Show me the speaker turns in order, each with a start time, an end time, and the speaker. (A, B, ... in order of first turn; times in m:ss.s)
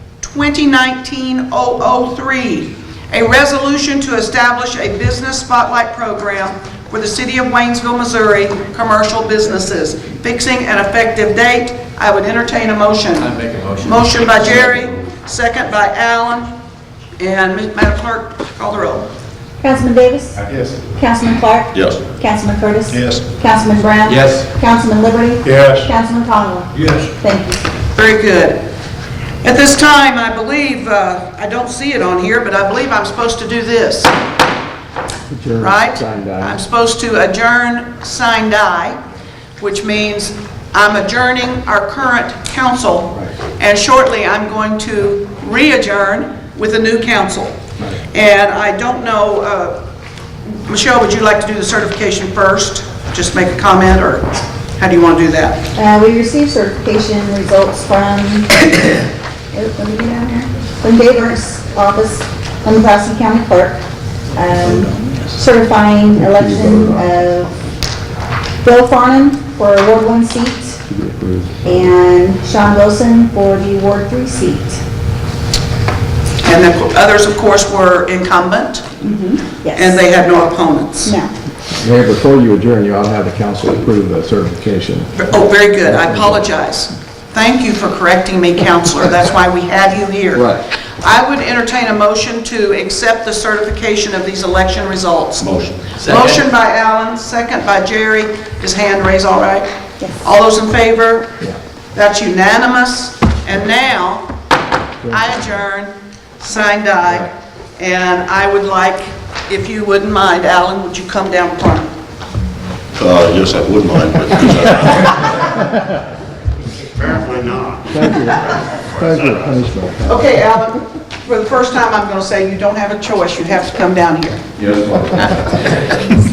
0:00.2-0:13.3 A
0:13.2-0:14.9 B
0:13.8-0:16.5 A
0:17.2-0:19.1 A
0:19.6-0:20.3 C
0:20.4-0:20.8 D
0:20.9-0:27.6 C
0:21.7-0:22.0 D
0:22.9-0:23.2 D
0:24.0-0:24.5 B
0:25.4-0:25.9 D
0:26.7-0:27.1 B
0:27.9-0:28.6 A
0:29.4-0:34.1 A
0:35.3-0:36.6 E
0:35.6-0:39.0 A
0:39.6-0:47.6 A
0:48.1-0:49.7 A
0:50.6-0:55.6 A
0:55.8-0:58.6 C
0:59.5-1:03.8 C
1:04.4-1:04.8 C
1:04.8-1:05.1 B
1:05.3-1:07.5 C
1:06.1-1:07.2 E
1:08.6-1:10.8 C
1:10.9-1:11.9 E
1:11.6-1:14.8 C
1:16.4-1:19.0 A
1:19.0-1:20.0 C
1:19.6-1:21.2 A
1:21.0-1:21.3 C
1:21.8-1:25.2 E
1:25.2-1:39.7 A
1:25.9-1:26.4 E
1:30.3-1:30.6 E
1:35.4-1:36.5 B
1:40.2-1:41.3 A
1:41.9-1:44.2 A
1:45.1-1:51.9 A
1:53.0-1:55.4 D
1:57.0-1:59.5 D
1:57.9-1:58.4 E
1:58.9-2:00.2 E
2:00.0-2:04.4 A
2:04.6-2:05.2 D
2:05.1-2:05.9 A